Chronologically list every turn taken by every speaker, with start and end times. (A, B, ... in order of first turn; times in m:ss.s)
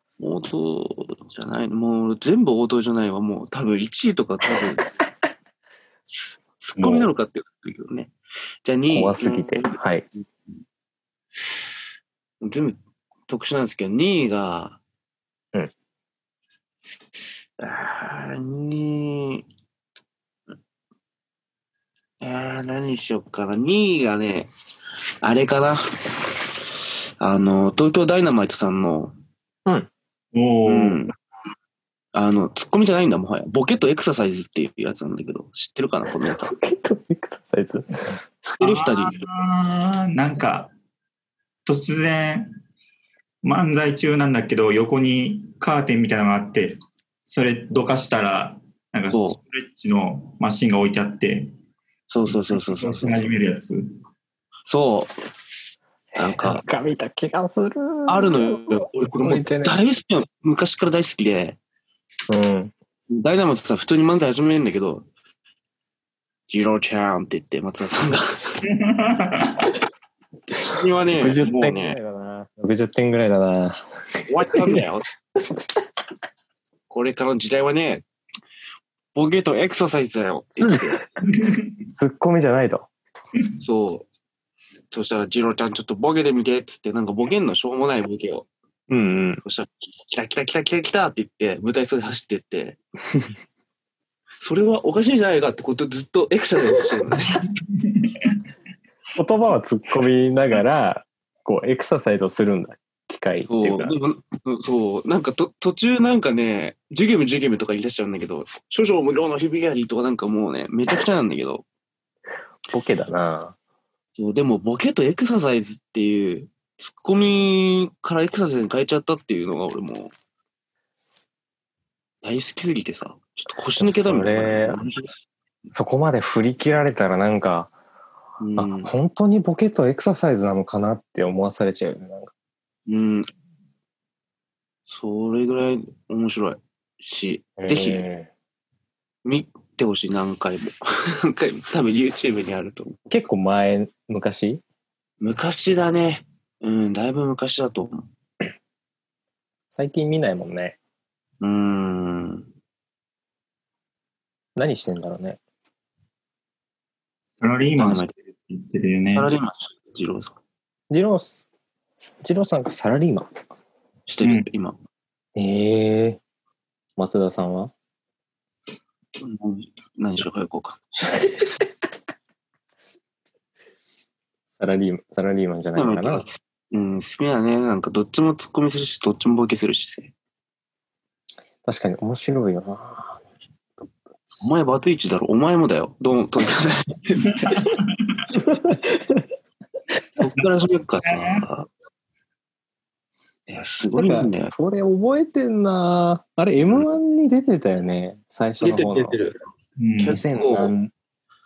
0:00.2-0:04.9 A
0:06.6-0:08.1 A
0:06.8-0:07.1 B
0:08.6-0:10.3 A
0:08.9-0:10.0 B
0:12.4-0:14.8 A
0:17.6-0:19.4 A
0:22.2-0:24.5 A
0:25.2-0:25.8 A
0:27.2-0:29.1 A
0:30.3-0:31.0 C
0:30.7-0:31.1 A
0:32.1-0:36.5 A
0:36.2-0:38.2 B
0:38.4-0:39.2 A
0:38.6-0:40.7 C
0:41.6-0:42.5 C
0:43.4-0:51.5 C
0:49.1-0:49.4 A
0:52.1-0:53.2 A
0:52.3-0:53.8 C
0:54.7-0:55.1 A
0:56.1-0:59.8 B
0:56.2-0:56.6 A
0:58.1-1:01.6 A
1:02.3-1:02.7 B
1:03.1-1:05.1 A
1:06.5-1:08.3 A
1:08.6-1:09.7 C
1:10.6-1:12.0 A
1:11.2-1:13.8 B
1:14.3-1:15.1 A
1:16.9-1:18.0 A
1:19.1-1:21.0 A
1:21.2-1:21.5 C
1:21.9-1:22.9 B
1:23.6-1:24.1 A
1:24.9-1:28.5 A
1:28.9-1:29.4 B
1:29.4-1:32.8 A
1:34.4-1:37.4 A
1:39.1-1:44.0 B
1:43.5-1:51.6 A
1:52.7-1:53.5 B
1:54.2-2:00.1 A
2:02.2-2:05.1 A
2:03.8-2:04.8 B
2:05.7-2:07.7 B
2:08.4-2:08.9 A
2:08.6-2:12.3 B
2:12.9-2:13.3 A
2:14.9-2:18.0 A
2:17.6-2:18.3 B
2:19.2-2:23.0 A
2:23.1-2:24.6 B
2:25.2-2:28.1 A
2:29.7-2:30.8 B
2:31.4-2:32.5 A
2:34.6-2:35.4 B
2:37.4-2:39.3 C
2:37.8-2:38.1 A
2:39.1-2:40.4 A
2:40.9-2:41.4 B
2:42.2-2:43.3 B
2:44.1-2:44.8 A
2:45.4-2:46.2 B
2:47.0-2:47.7 B
2:49.2-2:51.2 A
2:54.6-2:56.2 B
2:55.7-3:00.1 A
3:01.6-3:03.2 B
3:04.4-3:07.5 A
3:07.4-3:07.7 C
3:08.4-3:09.2 B
3:10.2-3:11.7 A
3:11.0-3:11.4 C
3:13.5-3:14.5 A
3:14.0-3:19.2 B
3:18.6-3:19.4 A
3:19.8-3:20.2 C
3:20.0-3:20.7 A
3:20.0-3:20.9 B